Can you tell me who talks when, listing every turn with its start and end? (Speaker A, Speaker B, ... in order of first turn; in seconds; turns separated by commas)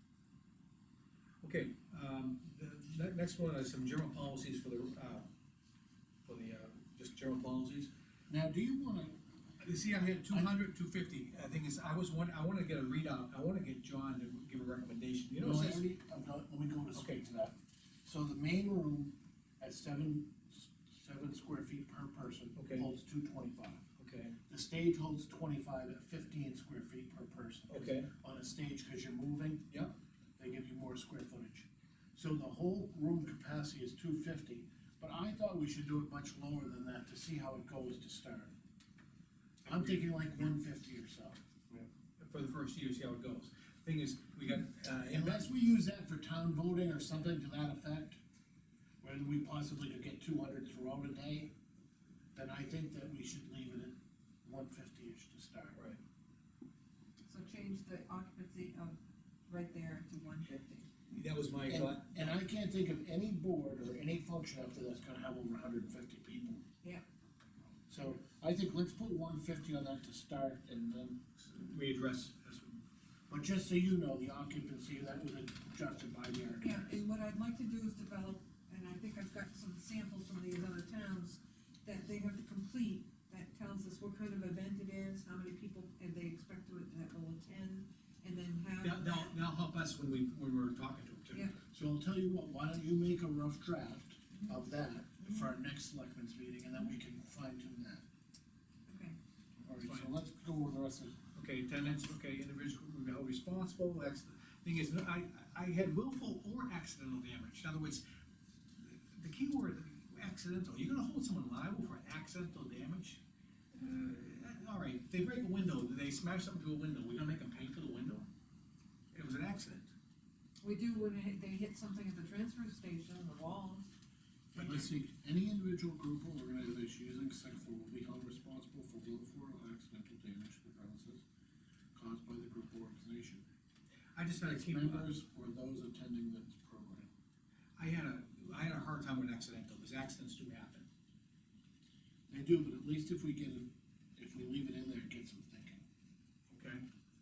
Speaker A: 1.4-5.2, Speaker A: 6.2-7.9, Speaker B: 8.3-9.1, Speaker A: 9.6-15.8, Speaker B: 10.3-10.5, Speaker B: 15.3-23.8, Speaker A: 16.9-17.2, Speaker A: 22.5-22.9, Speaker A: 24.0-24.4, Speaker B: 24.5-29.7, Speaker A: 27.7-28.1, Speaker B: 30.4-38.5, Speaker B: 39.6-41.4, Speaker A: 39.7-40.0, Speaker A: 42.2-45.5, Speaker B: 45.1-48.2, Speaker B: 49.0-51.5, Speaker B: 52.3-55.9, Speaker C: 57.3-59.0, Speaker C: 59.5-60.9, Speaker A: 61.1-62.4, Speaker B: 61.6-66.6, Speaker B: 67.9-71.5, Speaker A: 71.5-72.8, Speaker B: 73.3-76.9, Speaker C: 76.6-89.3, Speaker A: 88.8-91.4, Speaker C: 91.3-91.6, Speaker B: 91.7-98.0, Speaker C: 98.9-99.2, Speaker B: 99.6-101.1, Speaker A: 99.8-100.1, Speaker A: 101.3-108.0, Speaker A: 108.8-113.2, Speaker A: 113.7-118.3, Speaker A: 119.1-119.9, Speaker C: 120.6-123.8, Speaker B: 124.5-131.2, Speaker A: 124.5-124.9, Speaker B: 131.9-133.4, Speaker A: 134.2-135.1, Speaker B: 134.4-137.1, Speaker A: 137.8-140.8, Speaker B: 142.3-145.8, Speaker A: 146.5-146.8